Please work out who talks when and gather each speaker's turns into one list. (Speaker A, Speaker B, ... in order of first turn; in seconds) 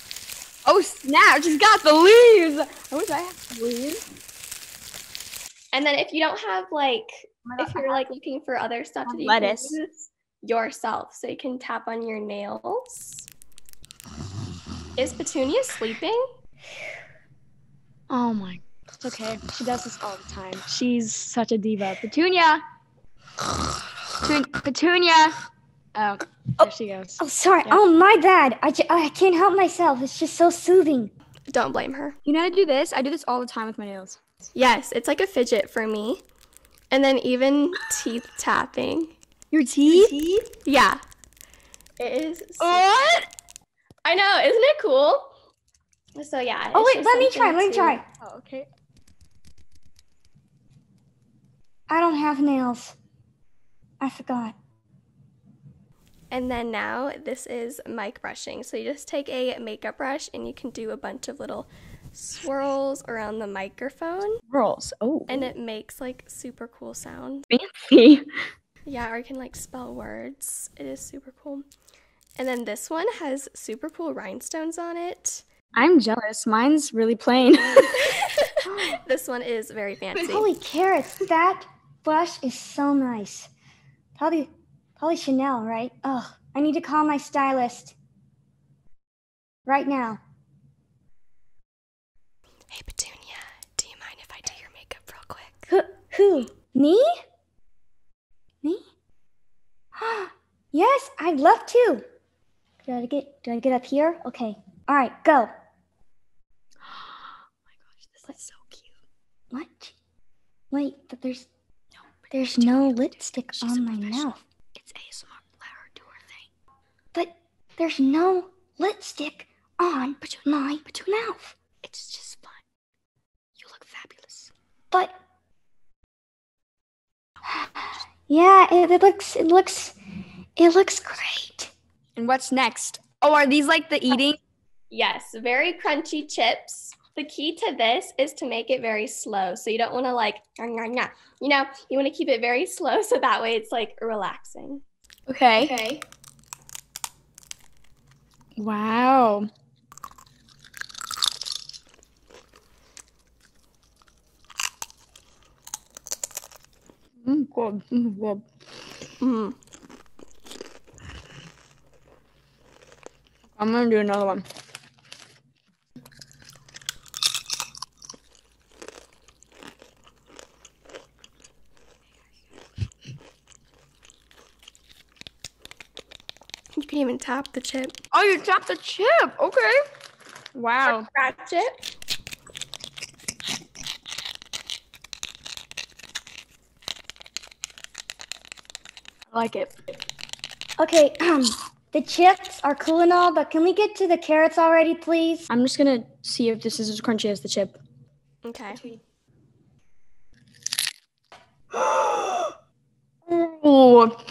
Speaker A: 0.7-4.0, 7.5-8.0, 9.1-9.8, 18.1-22.6, 24.2-25.4, 25.9-27.8, 32.3-34.2, 39.5-40.5, 42.6-43.2, 48.2-48.7, 64.5-65.5, 67.5-68.3, 75.8-78.0, 107.8-108.9, 112.2-116.4, 121.8-122.6, 123.6-124.5, 132.2-134.4, 145.3-146.0, 148.6-149.5, 157.2-158.4, 163.6-164.4, 178.1-179.8, 180.6-181.1, 189.3-189.7, 195.5-197.8, 198.7-199.0, 201.7-202.6, 203.3-204.2
Speaker B: 5.7-13.3, 15.0-16.2, 31.5-32.2, 34.5-36.2, 36.9-39.1, 40.6-41.0, 42.0-42.9, 44.0-45.3, 46.1-48.0, 56.3-64.4, 65.3-67.5, 68.9-71.7, 72.4-75.4, 77.6-80.5, 92.7-95.7, 134.9-144.8, 159.2-159.6, 176.8-178.0, 180.9-181.8, 198.4-198.8
Speaker C: 26.6-31.1, 46.7-48.0, 51.9-53.0, 54.0-54.5, 80.2-83.5, 84.2-88.0, 89.7-90.2, 95.7-97.1, 100.0-102.0, 102.8-105.5, 109.5-110.0, 110.7-111.5, 112.3-114.4, 117.1-121.5, 128.3-130.0, 130.6-131.7, 190.8-195.5